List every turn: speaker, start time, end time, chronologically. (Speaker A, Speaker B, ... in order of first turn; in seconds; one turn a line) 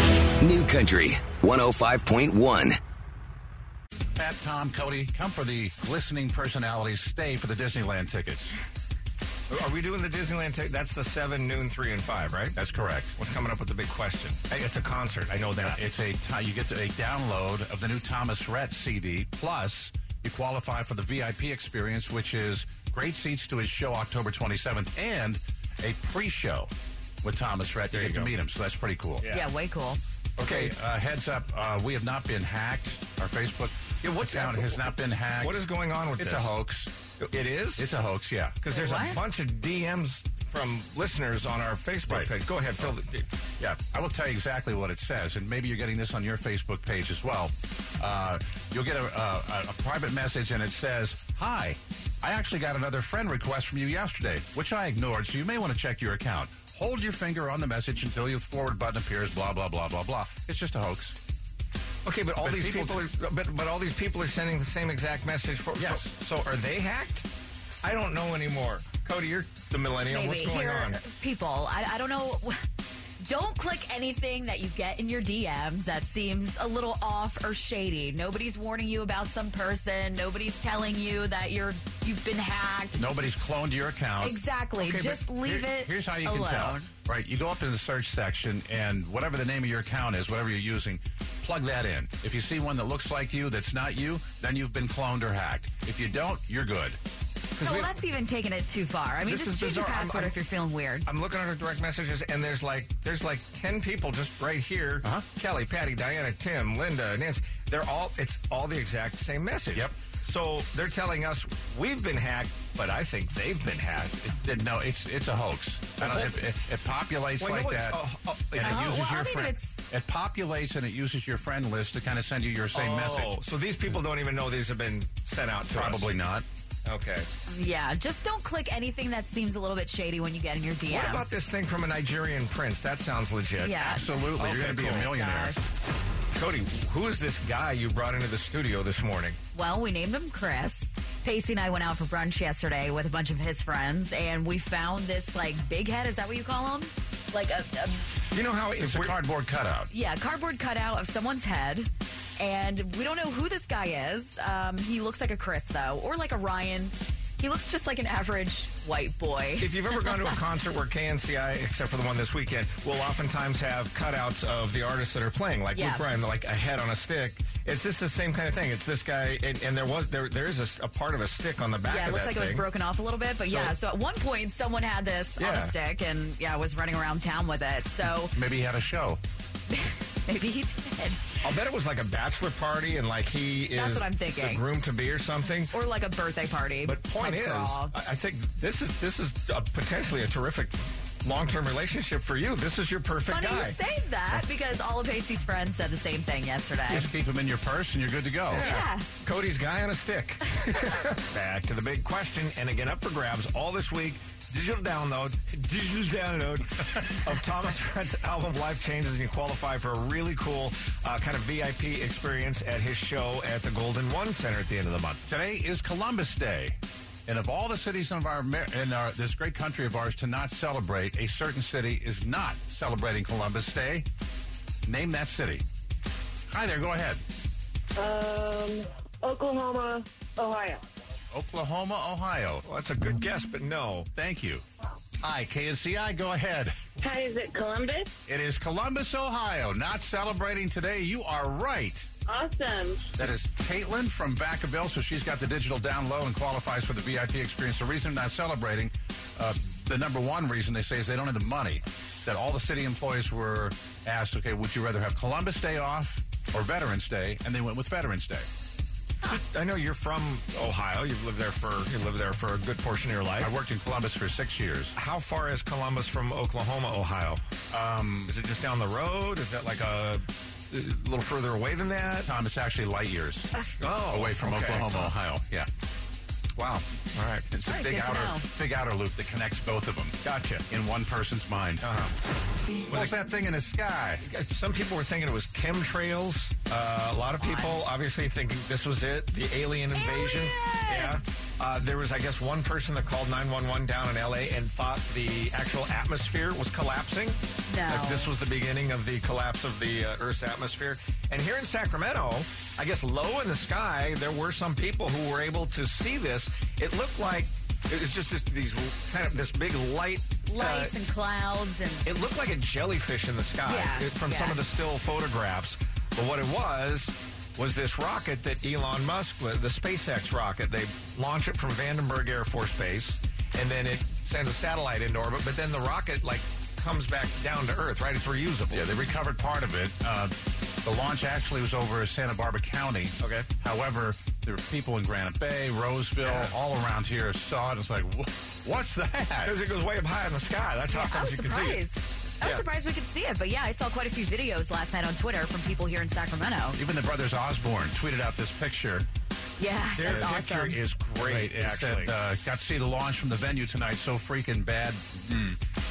Speaker A: 0.4-2.8
Speaker B: 4.2-8.6
Speaker C: 9.5-12.6
Speaker B: 12.6-13.1
Speaker C: 13.2-15.8
Speaker B: 15.6-26.7
Speaker B: 27.2-29.2
Speaker C: 27.9-28.3
Speaker C: 29.2-29.5
Speaker D: 29.3-30.0
Speaker B: 30.4-35.6
Speaker C: 30.4-30.7
Speaker C: 34.0-36.5
Speaker B: 36.2-36.9
Speaker C: 37.2-37.9
Speaker B: 37.8-38.6
Speaker C: 38.6-43.3
Speaker D: 38.7-39.2
Speaker B: 42.1-42.9
Speaker B: 43.6-61.1
Speaker C: 62.0-67.3
Speaker B: 62.4-63.0
Speaker B: 65.8-66.1
Speaker C: 67.8-71.0
Speaker D: 70.1-72.6
Speaker D: 73.2-83.0
Speaker B: 83.0-97.0
Speaker D: 84.2-86.9
Speaker C: 97.6-98.0
Speaker D: 97.6-101.1
Speaker C: 99.2-100.4
Speaker C: 101.0-114.3
Speaker B: 114.4-118.0
Speaker C: 116.0-116.4
Speaker C: 117.4-118.9
Speaker B: 118.5-123.4
Speaker D: 118.6-119.8
Speaker C: 122.7-126.1
Speaker B: 125.7-126.5
Speaker C: 126.8-127.3
Speaker D: 127.5-131.4
Speaker C: 130.9-135.1
Speaker D: 133.6-134.2
Speaker B: 133.8-135.6
Speaker D: 135.1-135.7
Speaker C: 136.3-139.4
Speaker D: 139.5-148.1
Speaker C: 148.3-149.2
Speaker B: 148.8-149.9
Speaker D: 149.9-160.3
Speaker C: 159.6-172.7
Speaker D: 165.7-166.1
Speaker D: 171.8-178.4
Speaker C: 173.4-173.8
Speaker C: 175.4-175.8
Speaker B: 178.2-179.2
Speaker D: 179.7-181.4
Speaker C: 181.4-185.8
Speaker D: 183.7-184.6
Speaker D: 185.7-187.9
Speaker C: 186.8-193.8
Speaker D: 193.3-197.1
Speaker B: 196.9-198.7
Speaker C: 198.5-215.2
Speaker D: 198.6-199.1
Speaker B: 215.3-224.1
Speaker B: 224.9-225.6
Speaker B: 226.5-227.2
Speaker E: 228.0-230.8
Speaker B: 231.3-232.6
Speaker C: 232.6-234.1
Speaker B: 234.2-234.6
Speaker B: 235.2-236.8
Speaker E: 237.0-238.1
Speaker B: 238.3-242.1
Speaker E: 242.3-243.2
Speaker B: 243.2-258.5
Speaker C: 259.2-263.5
Speaker B: 263.4-264.9
Speaker C: 264.9-267.4
Speaker B: 267.7-268.4
Speaker C: 268.3-272.3
Speaker B: 272.2-273.5
Speaker C: 273.8-275.1
Speaker B: 274.1-275.7
Speaker C: 276.6-277.5
Speaker B: 277.5-280.2
Speaker D: 277.6-278.5
Speaker C: 280.2-280.6
Speaker B: 280.7-281.9
Speaker C: 281.8-282.1
Speaker B: 282.9-284.2
Speaker C: 282.9-283.2
Speaker C: 284.2-310.9
Speaker D: 287.4-287.8
Speaker D: 289.9-291.2
Speaker D: 297.7-298.3
Speaker D: 310.5-312.1
Speaker C: 312.1-328.9
Speaker D: 313.6-314.6
Speaker B: 328.7-339.6
Speaker C: 333.2-333.5
Speaker C: 336.2-336.5
Speaker C: 339.4-341.9
Speaker D: 340.9-346.8
Speaker B: 346.8-349.1
Speaker D: 349.6-350.8
Speaker C: 350.0-352.1
Speaker B: 351.2-355.6